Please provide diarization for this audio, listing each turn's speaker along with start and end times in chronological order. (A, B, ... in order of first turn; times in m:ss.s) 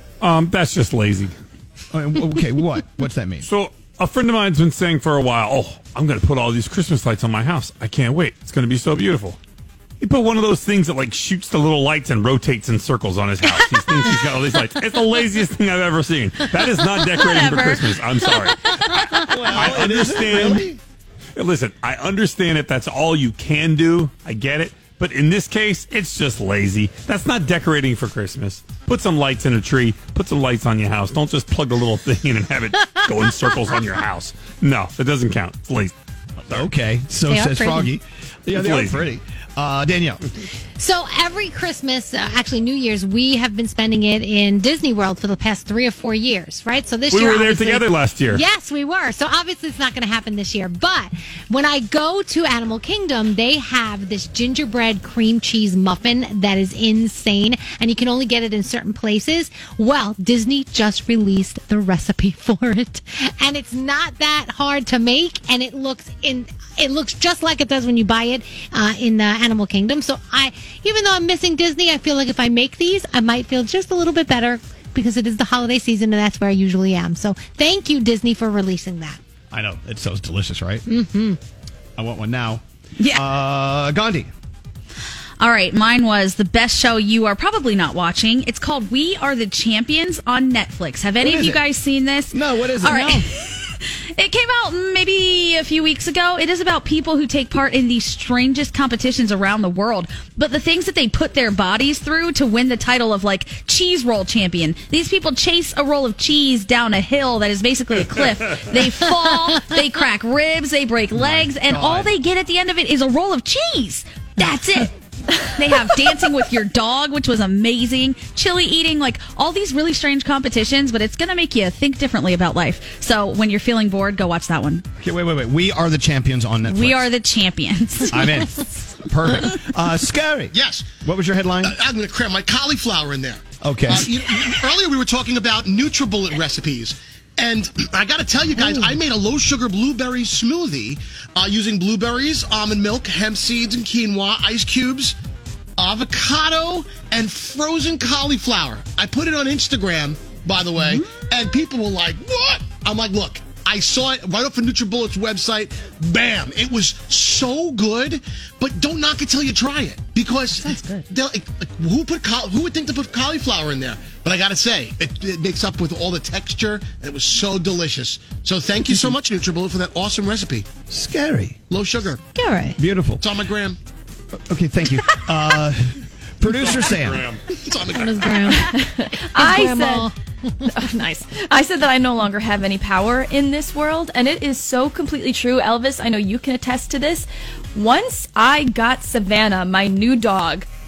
0:00.2-0:01.3 A
0:01.9-0:03.5 B
0:03.4-0:09.4 A
0:10.0-0:20.7 A
0:17.1-0:19.1 C
0:19.2-0:20.8 B
0:21.4-0:36.0 A
0:36.5-0:40.3 B
0:37.3-0:37.9 D
0:38.5-0:39.0 A
0:40.8-1:19.2 D
0:47.1-0:48.4 A
1:19.5-1:20.9 B
1:20.9-1:21.4 D
1:22.0-1:24.3 B
1:25.4-1:54.9 C
1:31.2-1:31.7 B
1:32.3-1:33.2 B
1:51.1-1:52.2 B
1:55.6-2:04.8 C
2:05.0-2:07.1 B
2:06.6-2:08.5 C
2:08.1-2:11.8 B
2:10.5-2:10.9 E
2:11.6-2:25.2 E
2:13.6-2:14.1 B
2:25.8-2:50.7 E
2:40.6-2:41.0 C
2:50.9-2:51.6 B
2:51.7-2:52.2 E
2:52.3-2:52.8 D
2:52.8-2:53.2 B
2:53.2-2:53.8 E
2:54.5-2:57.3 B
2:56.5-2:57.4 A
2:57.5-2:58.5 E
2:57.9-3:00.7 D
2:58.5-3:00.1 F
3:00.6-3:10.7 F